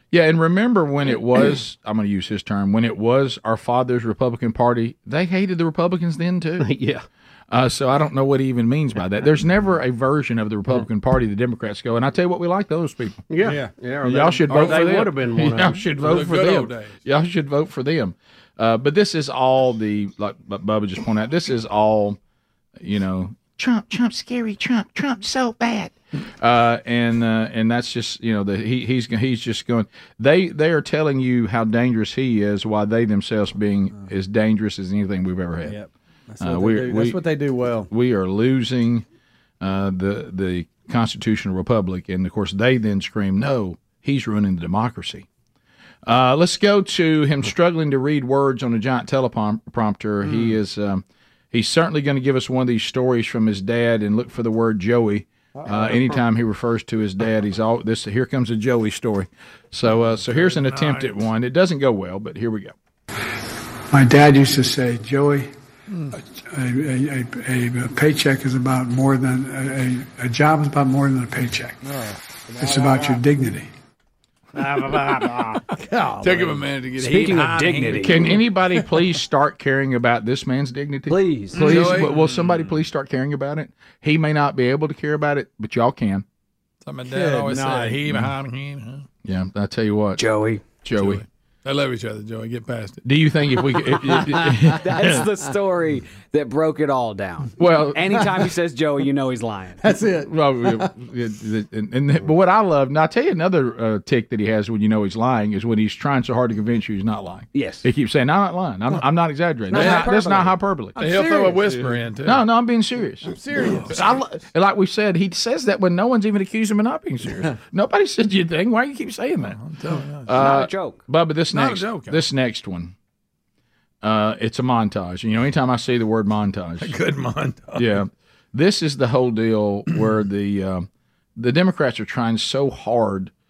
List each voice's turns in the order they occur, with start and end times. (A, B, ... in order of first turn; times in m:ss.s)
0:00.1-0:06.7 A
0:06.6-0:07.0 B
0:07.5-0:13.2 A
0:13.3-0:15.8 B
0:14.0-0:22.2 A
0:16.0-0:17.0 C
0:22.8-0:35.8 A
0:35.6-0:37.9 D
0:36.4-0:37.2 A
0:37.9-0:39.0 A
0:39.6-0:45.2 A
0:46.0-1:02.7 A
0:55.6-0:56.0 D
1:00.2-1:01.1 C
1:03.9-1:05.5 E
1:06.3-1:11.8 E
1:11.8-1:13.2 D
1:12.6-1:13.7 E
1:14.7-1:15.4 C
1:15.8-1:16.6 D
1:16.2-1:18.4 C
1:17.0-1:18.2 F
1:18.0-1:26.2 A
1:21.1-1:22.0 F
1:21.5-1:22.6 C
1:26.8-1:29.0 C
1:27.1-1:28.0 D
1:29.2-1:30.2 A
1:30.2-1:30.6 F
1:30.8-1:31.2 A
1:30.9-1:33.0 C
1:33.0-1:35.2 A
1:34.8-1:39.8 F
1:37.6-1:38.2 A
1:39.8-1:40.8 D
1:40.1-1:51.0 A
1:47.5-1:47.8 F
1:49.7-1:50.5 F
1:49.7-1:50.2 C
1:51.0-1:52.4 C
1:51.0-1:51.9 D
1:52.2-1:59.6 A
1:53.2-1:54.1 D
1:53.7-1:54.0 C
1:59.5-2:00.5 C
2:00.2-2:02.9 A
2:00.4-2:01.0 F
2:01.5-2:02.2 C
2:04.0-2:07.0 A
2:06.8-2:08.0 C
2:07.8-2:13.3 A